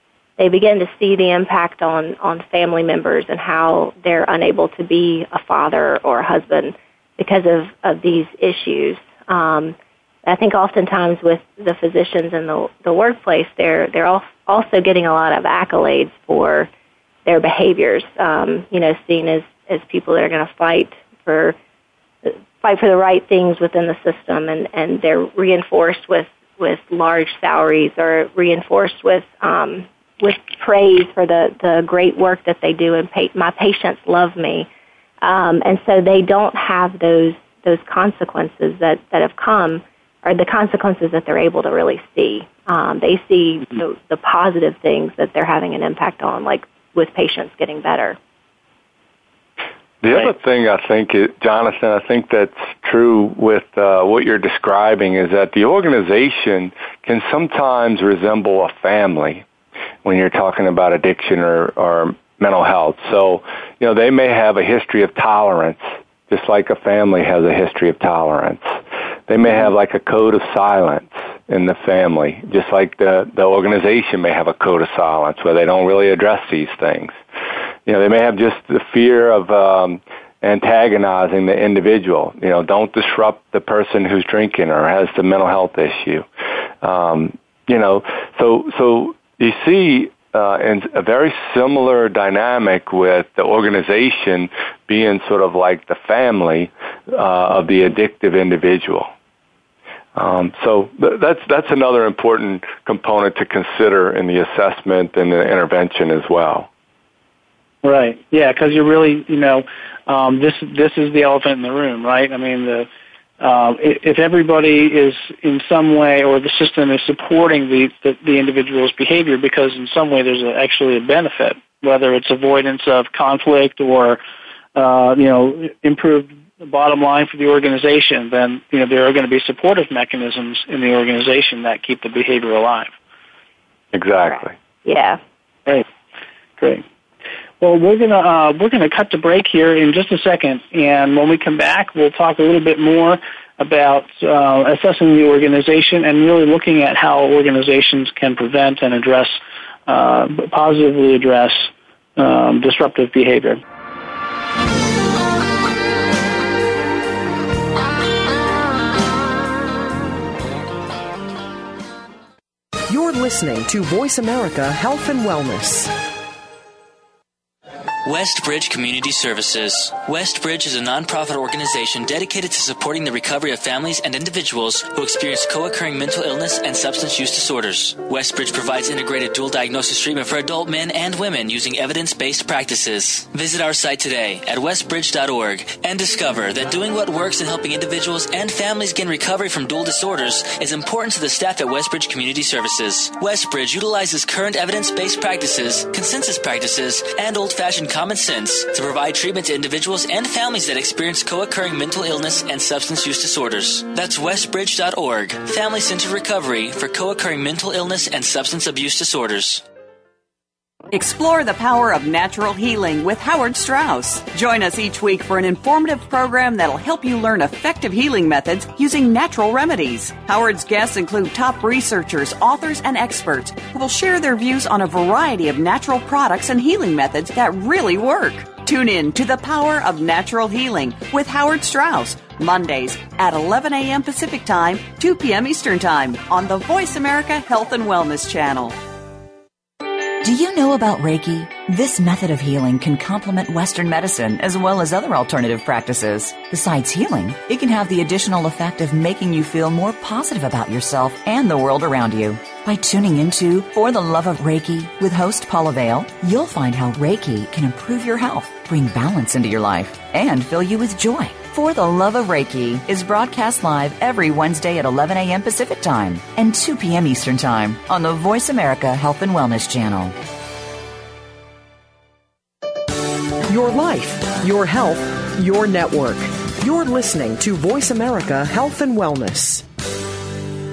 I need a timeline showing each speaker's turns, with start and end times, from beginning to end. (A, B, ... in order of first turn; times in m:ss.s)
0:00.4-0:16.7 A
0:17.2-0:21.6 A
0:22.2-0:34.7 A
0:35.2-0:48.2 A
0:50.0-0:59.4 B
1:00.0-1:17.2 B
1:17.9-1:26.3 B
1:26.8-1:39.1 B
1:40.1-1:46.7 B
1:47.8-1:52.9 C
1:53.4-2:04.2 C
2:04.8-2:12.9 C
2:13.9-2:14.6 B
2:14.8-2:15.2 A
2:16.6-2:16.8 C
2:17.6-2:33.6 C
2:42.9-2:46.0 D
2:48.0-3:29.6 E
3:30.9-3:58.8 F
4:00.2-4:30.2 G
4:33.5-4:39.7 D